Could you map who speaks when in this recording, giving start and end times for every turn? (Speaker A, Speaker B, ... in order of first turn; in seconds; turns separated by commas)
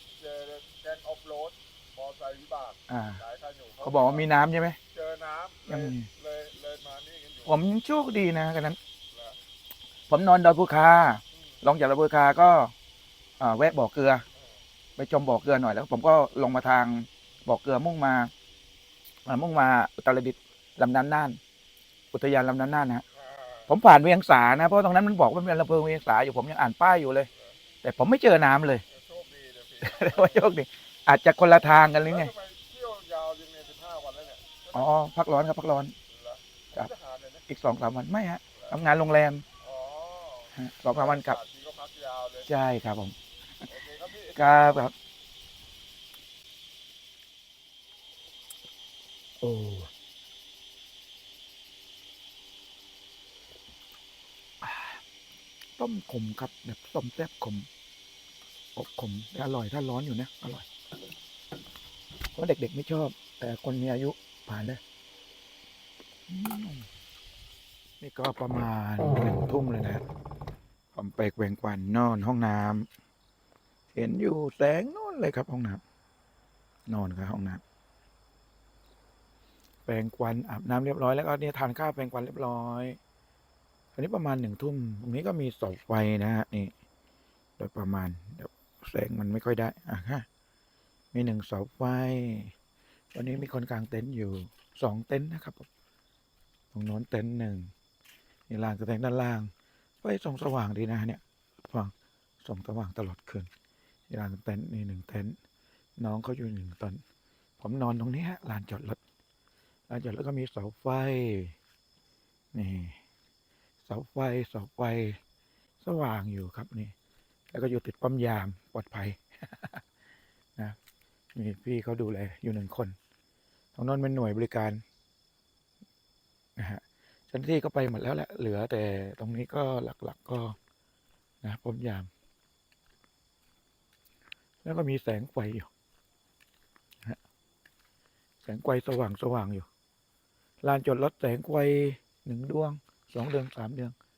Speaker A: 0.2-2.7, Speaker B: 2.9-3.2, Speaker B: 3.8-4.8, Speaker A: 5.1-5.5, Speaker B: 5.7-6.1, Speaker A: 6.4-6.9, Speaker B: 7.4-8.8, Speaker B: 10.1-12.7, Speaker B: 13.4-14.2, Speaker B: 15.0-18.3, Speaker B: 19.3-21.4, Speaker B: 22.1-23.1, Speaker B: 23.7-27.3, Speaker B: 27.8-28.9, Speaker A: 29.1-29.6, Speaker B: 29.8-32.4, Speaker A: 32.7-34.5, Speaker B: 34.7-36.0, Speaker B: 37.5-39.5, Speaker A: 39.7-40.4, Speaker B: 40.5-41.4, Speaker A: 41.6-42.1, Speaker B: 42.4-43.2, Speaker B: 44.3-44.9, Speaker B: 49.4-49.9, Speaker B: 54.6-55.0, Speaker B: 55.8-57.7, Speaker B: 58.8-60.7, Speaker B: 62.4-64.8, Speaker B: 66.3-66.9, Speaker B: 68.0-70.0, Speaker B: 70.9-72.9, Speaker B: 73.9-75.8, Speaker B: 76.9-77.6, Speaker B: 79.9-83.0, Speaker B: 84.0-86.7, Speaker B: 87.6-90.3, Speaker B: 91.1-92.5, Speaker B: 93.1-95.7, Speaker B: 96.7-97.7, Speaker B: 98.5-99.5, Speaker B: 100.0-103.5, Speaker B: 104.1-105.4, Speaker B: 106.0-107.0, Speaker B: 107.6-109.0, Speaker B: 109.9-111.5, Speaker B: 112.5-113.0, Speaker B: 113.9-115.2, Speaker B: 115.8-116.9, Speaker B: 117.5-119.8, Speaker B: 121.3-123.0, Speaker B: 123.8-124.8, Speaker B: 126.6-130.6, Speaker B: 131.4-132.1, Speaker B: 134.6-135.7, Speaker B: 138.4-139.7, Speaker B: 140.6-143.9